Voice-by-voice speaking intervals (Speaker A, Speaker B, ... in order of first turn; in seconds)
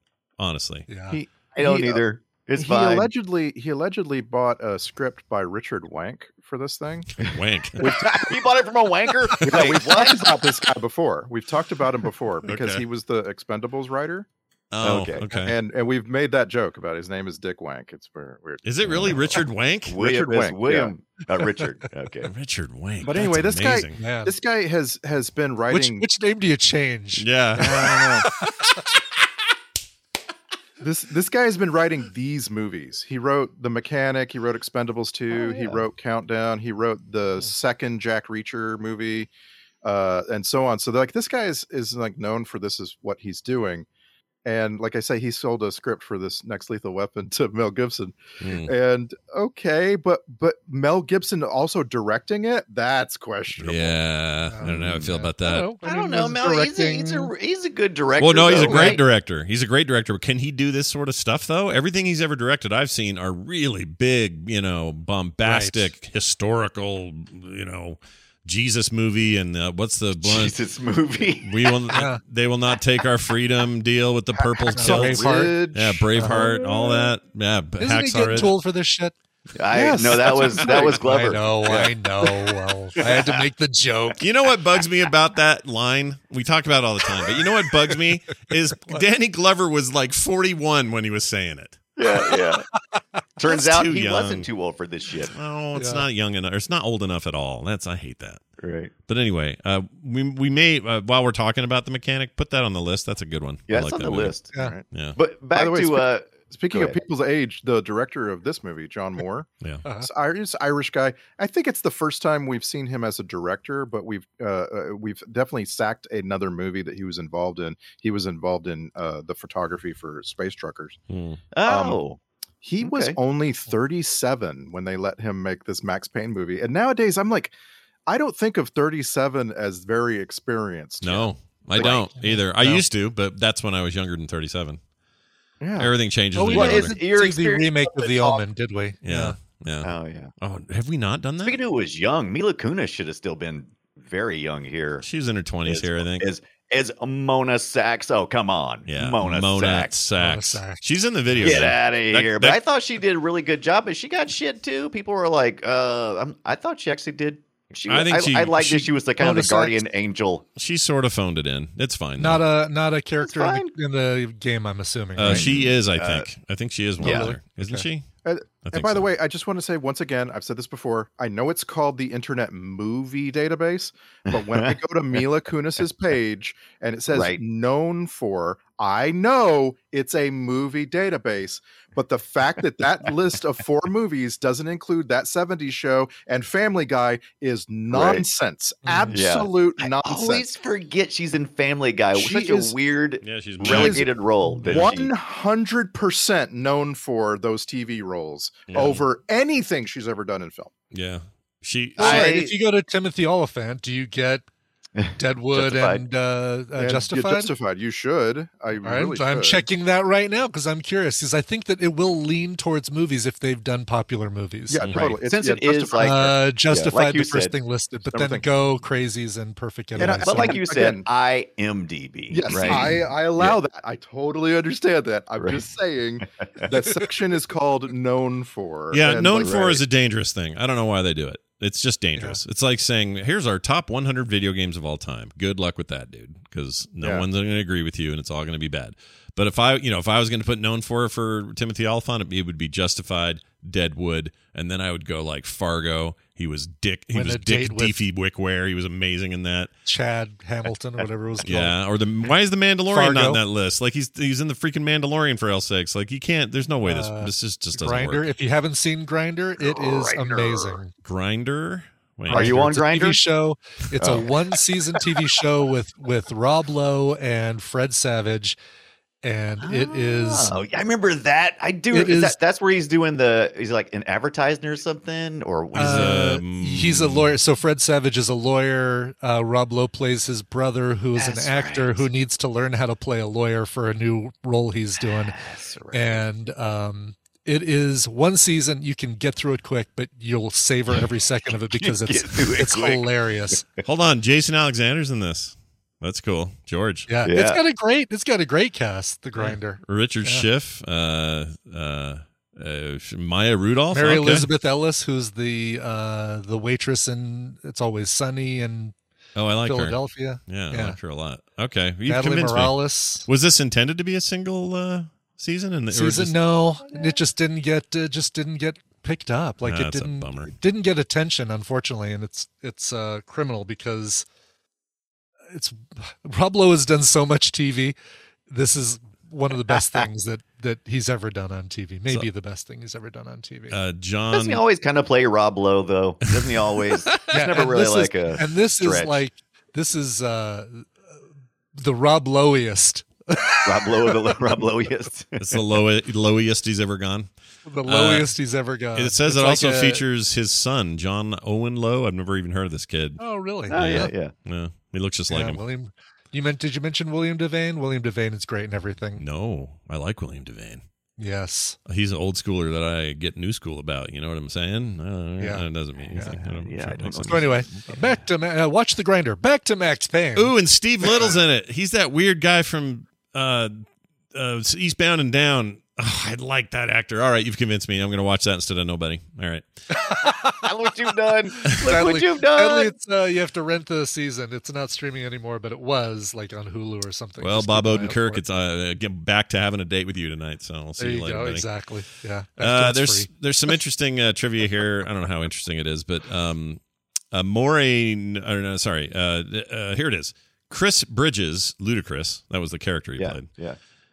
Speaker A: 0.4-0.9, 7.2-7.8, 12.4-12.8, 14.7-15.5, 18.6-20.0, 22.3-24.0, 27.2-28.1, 48.4-48.7, 53.6-55.7, 58.2-70.5, 71.4-78.5, 84.2-91.8, 93.4-94.5, 95.3-98.4, 99.1-104.3, 104.9-105.2, 121.1-121.4, 131.0-134.8, 135.8-136.9, 139.0-141.6, 145.0-146.2, 148.9-152.6, 157.9-158.9, 160.6-162.4, 165.2-168.1, 168.6-169.1, 193.2-194.1, 194.6-194.9, 198.7-199.0, 200.9-202.2, 214.8-215.1, 228.9-249.7, 251.4-258.3, 261.0-262.7, 275.7-277.3, 293.8-297.1, 299.8-304.5, 309.3-316.4, 319.6-320.5, 333.7-334.6, 345.4-347.3, 347.9-348.3, 348.9-353.2, 353.7-355.6, 359.2-360.8, 361.9-367.5, 370.4-379.7, 387.4-391.7, 392.6-396.8, 397.3-403.5
Speaker B: 0.9-1.2, 24.0-24.3, 25.7-27.2, 28.2-28.5, 35.3-35.8, 54.5-57.3, 58.6-59.0, 65.4-65.9, 71.9-72.2, 74.7-75.5, 76.2-76.4, 77.8-79.1, 80.8-84.2, 92.3-93.2, 95.8-96.0, 109.8-110.1, 132.1-132.8, 136.3-139.3, 150.2-151.7, 159.2-159.8, 162.2-165.4, 167.0-167.8, 188.8-189.2, 202.0-204.4, 205.2-207.5, 208.8-214.8, 216.0-220.5, 247.1-247.9, 249.8-251.8, 252.9-253.4, 256.9-260.9, 262.3-268.6, 269.2-270.5, 271.9-272.4, 275.7-285.3, 285.9-293.6, 297.1-300.4, 303.9-308.9, 309.6-311.0, 312.1-313.2, 315.9-324.2, 325.5-327.9, 328.5-333.8, 337.3-340.9, 341.8-344.1, 347.6-350.0, 353.2-354.1, 355.3-359.2, 361.2-361.8, 365.4-366.4, 367.2-370.5, 379.9-380.6, 381.6-388.4, 391.0-393.3
Speaker C: 1.1-2.0, 2.6-7.1, 9.4-14.3, 15.3-20.9, 23.0-26.1, 27.6-28.3, 30.8-39.3, 39.8-43.9, 44.4-54.0, 74.6-77.1, 79.7-81.0, 104.5-104.8, 105.5-109.5, 110.0-121.0, 121.6-122.0, 122.6-127.5, 128.1-132.0, 135.6-135.9, 168.2-190.5, 192.1-192.8, 193.6-194.0, 194.7-200.7, 206.8-209.6, 214.7-216.2, 218.1-218.5, 219.9-221.0, 222.3-229.8, 237.0-237.2
Speaker D: 1.5-3.1, 7.2-10.2, 14.8-15.2, 19.9-22.3, 55.8-59.0, 70.2-71.7, 79.5-82.3, 83.0-83.4, 92.0-92.6, 93.4-95.3, 98.6-98.9, 103.7-104.5, 105.2-107.0, 121.5-122.2, 122.8-123.2, 131.8-132.0, 136.5-138.4, 139.8-140.3, 141.4-145.1, 145.7-149.9, 151.4-160.4, 163.2-163.7, 165.2-166.3, 167.0-167.3, 174.3-174.7, 177.1-177.4, 187.9-188.2, 189.1-195.1, 201.9-202.5, 205.0-206.0, 214.9-217.5, 220.0-223.6, 229.4-229.7, 259.6-260.8, 262.3-263.2, 264.0-264.3, 269.6-276.0, 281.1-282.1, 285.0-286.2, 291.8-293.1, 297.2-297.6, 334.3-339.1, 343.6-345.6, 353.7-354.3, 366.2-368.2, 380.6-382.9, 403.2-403.8